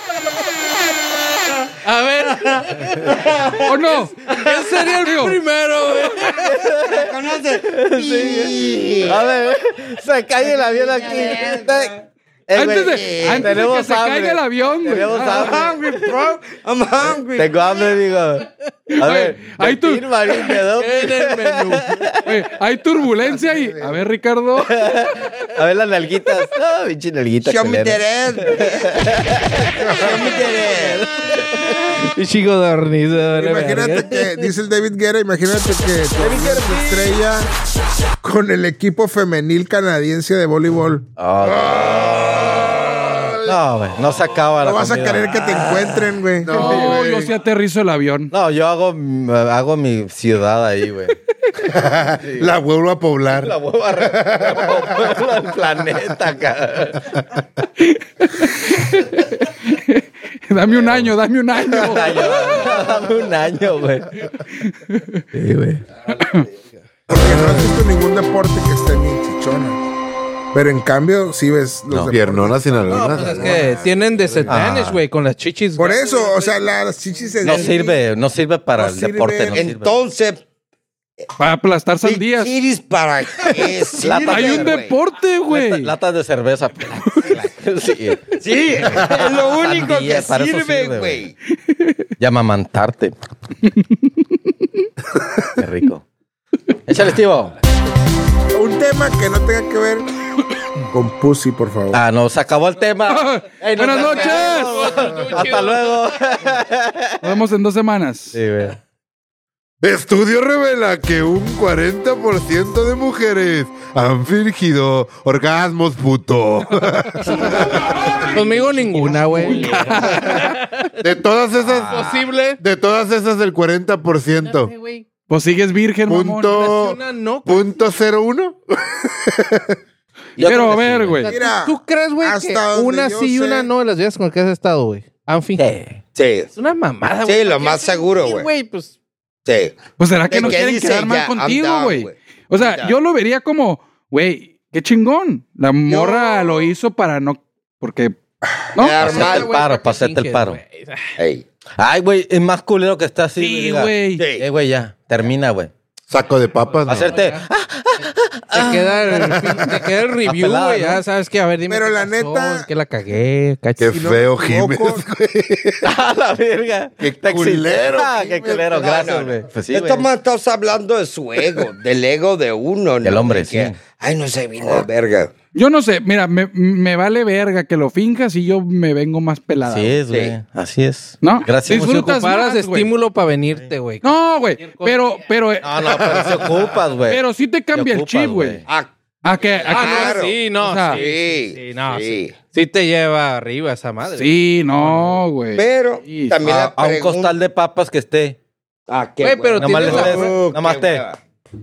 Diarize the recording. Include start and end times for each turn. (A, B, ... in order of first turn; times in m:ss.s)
0:01.8-0:03.1 A
0:02.6-0:03.8 B
0:03.7-0:05.4 C
0:04.3-0:06.7 A
0:06.4-0:16.1 D
0:06.8-0:09.2 B
0:10.4-0:11.9 B
0:12.5-0:15.6 C
0:12.7-0:13.6 B
0:15.2-0:17.5 B
0:17.0-0:22.2 D
0:18.9-0:20.5 C
0:20.7-0:22.2 A
0:22.2-0:24.8 C
0:23.6-0:24.0 E
0:24.6-0:30.4 D
0:27.4-0:29.1 B
0:29.8-0:31.1 B
0:30.2-0:34.5 A
0:33.4-0:37.5 F
0:36.2-0:37.1 B
0:38.2-0:41.1 F
0:41.2-0:42.8 D
0:41.6-0:42.6 B
0:43.4-0:45.5 D
0:44.6-0:46.9 F
0:46.4-0:47.3 E
0:46.5-0:48.3 C
0:48.3-0:51.2 D
0:51.7-0:55.3 E
0:52.2-0:52.5 D
0:53.3-0:57.2 D
0:57.8-1:02.8 C
1:00.7-1:01.1 D
1:01.7-1:04.3 D
1:04.5-1:05.2 C
1:05.3-1:05.8 D
1:06.1-1:06.5 C
1:07.1-1:09.8 F
1:10.5-1:13.6 F
1:12.1-1:14.6 E
1:12.9-1:16.6 A
1:14.5-1:15.0 D
1:15.8-1:18.0 F
1:17.4-1:20.0 D
1:18.8-1:19.7 F
1:19.5-1:20.4 B
1:21.4-1:22.6 C
1:22.0-1:25.0 B
1:24.0-1:24.8 D
1:24.2-1:25.9 C
1:25.5-1:31.2 D
1:28.4-1:31.3 B
1:32.2-1:33.2 D
1:35.6-1:36.0 D
1:36.9-1:37.6 D
1:38.5-1:40.1 F
1:40.9-1:42.0 F
1:41.9-1:47.3 D
1:43.1-1:45.1 C
1:44.0-1:44.3 B
1:44.2-1:45.7 A
1:47.2-1:48.4 C
1:48.3-1:48.8 D
1:49.8-1:58.1 E
1:58.0-2:00.6 C
1:58.3-2:00.9 A
1:59.5-1:59.9 B
2:01.0-2:04.7 E
2:01.6-2:02.2 B
2:01.9-2:02.6 A
2:04.4-2:05.0 A
2:05.3-2:06.6 C
2:06.1-2:09.8 E
2:06.6-2:07.8 A
2:10.4-2:11.3 D
2:10.4-2:11.3 C
2:11.2-2:15.9 A
2:11.2-2:13.7 F
2:15.6-2:16.0 D
2:16.2-2:16.5 B
2:16.6-2:18.9 A
2:17.2-2:18.5 B
2:19.5-2:23.0 B
2:20.0-2:28.2 C
2:25.9-2:26.3 B
2:28.8-2:29.2 C
2:28.8-2:29.5 B
2:29.0-2:30.6 D
2:29.0-2:31.2 A
2:31.2-2:31.4 B
2:31.8-2:35.7 D
2:33.4-2:34.3 C
2:34.2-2:34.4 B
2:36.1-2:37.2 E
2:36.7-2:37.4 A
2:36.9-2:39.7 D
2:38.5-2:44.0 A
2:40.2-2:41.0 D
2:41.7-2:42.7 F
2:43.8-2:45.9 E
2:43.9-2:45.0 F
2:45.8-2:50.1 D
2:47.0-2:48.6 E
2:48.5-2:55.3 B
2:53.0-2:53.8 D
2:55.5-3:00.0 C
2:59.6-3:02.2 D
3:00.1-3:00.4 B
3:01.2-3:02.9 C
3:01.8-3:05.2 A
3:04.0-3:05.8 C
3:05.6-3:07.2 D
3:06.2-3:06.7 E
3:07.1-3:08.6 C
3:07.7-3:08.6 D
3:09.2-3:11.0 C
3:09.6-3:12.3 B
3:09.6-3:15.2 A
3:14.2-3:16.4 C
3:15.6-3:17.3 B
3:16.4-3:18.4 D
3:18.9-3:21.2 B
3:19.2-3:20.4 A
3:19.6-3:21.0 D